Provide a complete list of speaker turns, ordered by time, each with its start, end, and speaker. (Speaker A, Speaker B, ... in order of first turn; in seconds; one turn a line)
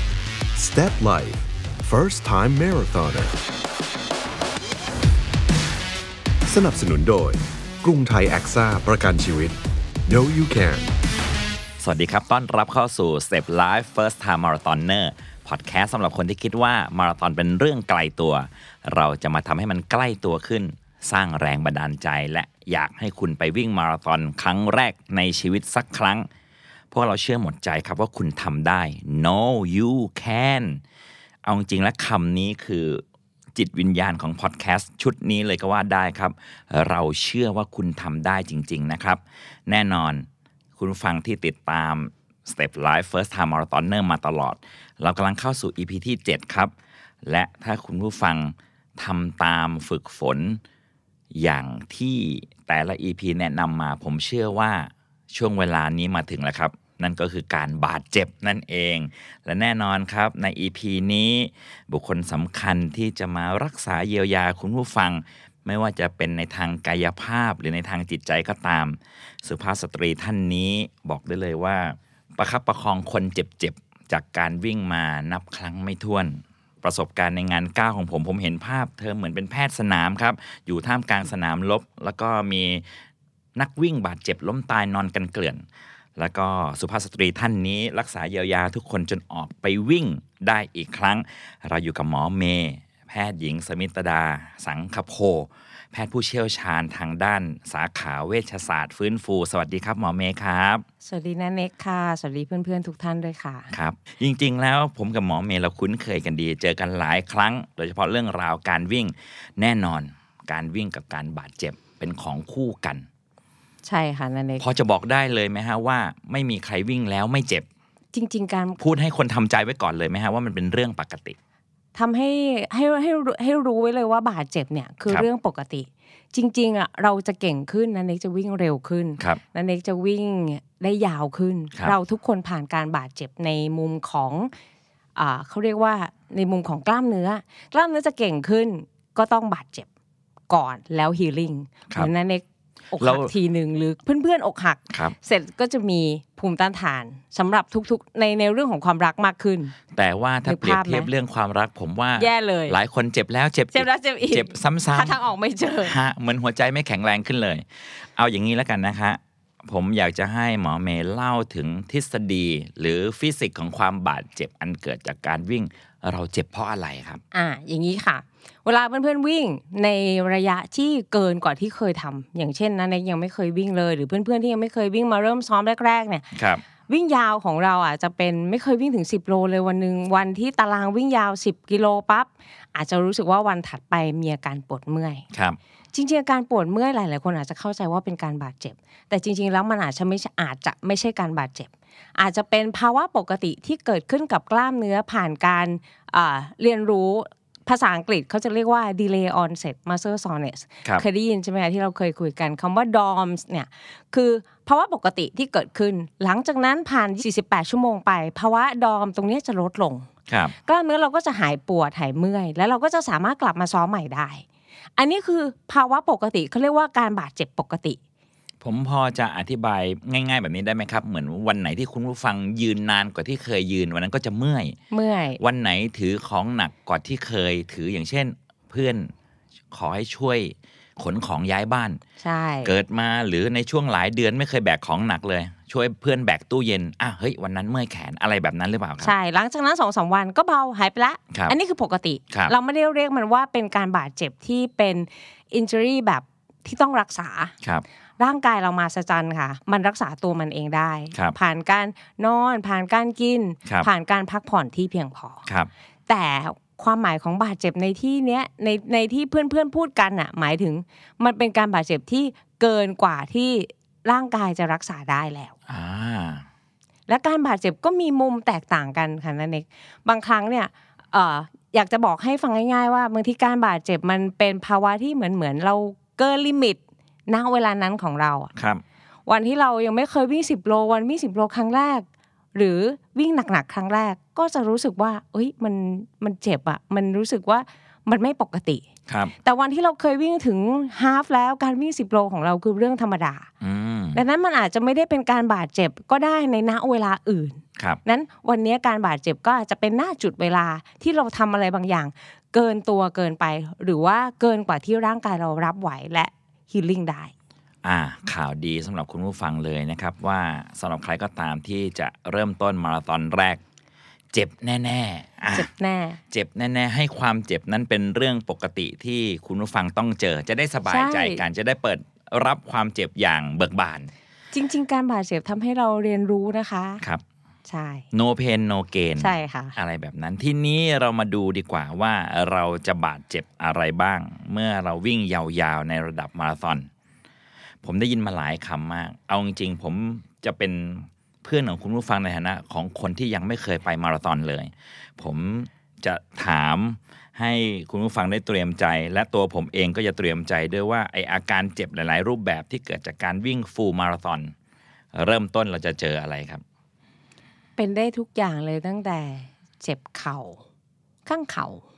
Speaker A: 0.5-3.3
Speaker A: 6.5-10.9
Speaker B: 11.8-26.3
Speaker B: 26.9-30.8
Speaker B: 31.4-33.0
Speaker B: 33.5-46.7
Speaker B: 47.2-50.6
Speaker B: 51.3-82.8
Speaker B: 83.6-85.6
Speaker B: 86.2-100.8
Speaker C: 101.0-103.7
Speaker B: 103.7-113.0
Speaker C: 113.8-114.6
Speaker B: 114.6-117.7
Speaker C: 118.1-118.8
Speaker B: 118.8-121.3
Speaker C: 121.9-134.5
Speaker C: 135.2-139.9
Speaker C: 140.5-149.7
Speaker B: 143.0-143.3
Speaker B: 149.9-155.2
Speaker C: 150.4-151.1
Speaker C: 152.2-152.7
Speaker C: 153.7-155.9
Speaker B: 155.8-167.2
Speaker C: 167.3-176.3
Speaker B: 176.3-176.6
Speaker C: 176.9-185.2
Speaker B: 185.3-185.6
Speaker C: 185.9-210.1
Speaker B: 210.3-210.5
Speaker C: 210.6-214.4
Speaker C: 215.0-218.0
Speaker B: 218.6-224.8
Speaker C: 224.9-225.4
Speaker B: 225.4-229.1
Speaker B: 229.7-232.0
Speaker C: 232.2-232.7
Speaker B: 232.6-239.1
Speaker C: 239.0-247.5
Speaker C: 248.2-255.4
Speaker C: 256.1-265.5
Speaker B: 265.7-266.4
Speaker C: 267.1-278.5
Speaker B: 278.5-278.8
Speaker C: 279.3-288.8
Speaker B: 289.1-289.3
Speaker C: 289.4-293.5
Speaker B: 293.6-294.2
Speaker C: 294.1-307.3
Speaker B: 307.8-313.6
Speaker B: 314.3-315.7
Speaker C: 315.5-316.2
Speaker B: 316.3-324.1
Speaker C: 320.9-321.4
Speaker C: 324.5-327.0
Speaker C: 327.7-328.1
Speaker B: 328.1-336.9
Speaker C: 329.2-329.8
Speaker B: 337.8-354.5
Speaker B: 355.1-356.6
Speaker C: 357.8-360.6
Speaker C: 361.2-361.8